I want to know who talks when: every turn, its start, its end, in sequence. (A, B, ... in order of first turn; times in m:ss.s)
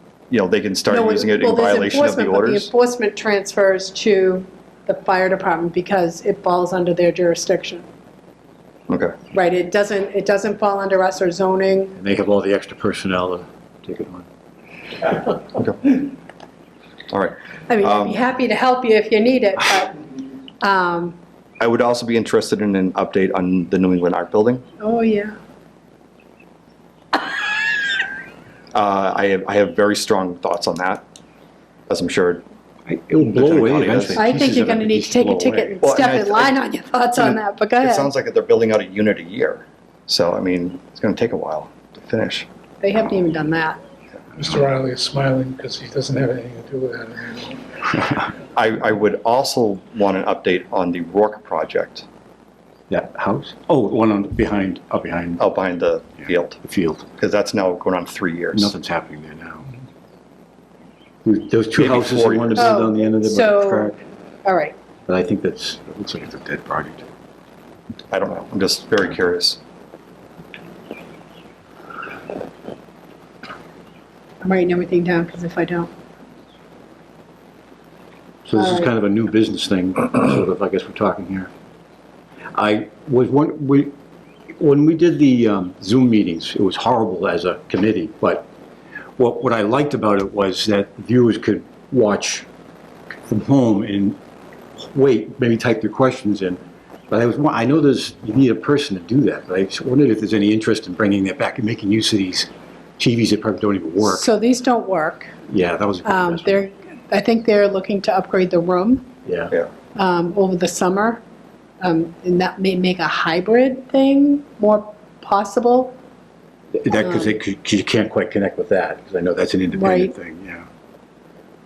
0:00.3-0:02.7 A
0:00.9-0:07.8 B
0:08.9-0:09.1 A
0:09.3-0:12.0 B
0:12.0-0:14.2 C
0:15.4-0:16.1 A
0:17.1-0:18.2 A
0:17.7-0:20.0 B
0:20.6-0:21.2 B
0:21.6-0:24.6 A
0:24.8-0:25.4 B
0:28.7-0:31.0 A
0:31.9-0:32.4 A
0:32.9-0:35.8 C
0:33.4-0:34.3 A
0:34.2-0:38.1 B
0:35.8-0:36.5 A
0:37.2-0:42.5 A
0:42.8-0:43.8 B
0:44.4-0:47.6 D
0:48.6-0:52.0 A
0:52.9-0:55.4 C
0:55.4-0:56.6 A
0:56.2-0:57.1 C
0:57.2-0:58.7 A
0:58.5-0:59.7 C
1:01.2-1:04.0 C
1:01.8-1:02.8 A
1:02.6-1:03.9 B
1:04.4-1:04.7 B
1:05.1-1:07.0 C
1:08.1-1:09.6 A
1:14.4-1:15.9 B
1:18.4-1:21.5 C
1:18.6-1:18.9 B
1:22.5-1:23.9 C
1:24.6-1:28.5 C
1:29.2-1:32.5 C
1:33.3-1:34.2 C
1:34.8-1:44.3 C
1:44.0-1:45.3 B
1:45.5-1:46.6 C
1:46.0-1:49.0 B
1:49.2-1:49.5 C
1:49.9-1:51.2 B
1:51.8-1:56.0 B
1:56.7-2:00.6 C
1:56.9-1:57.3 B
1:59.7-2:00.1 B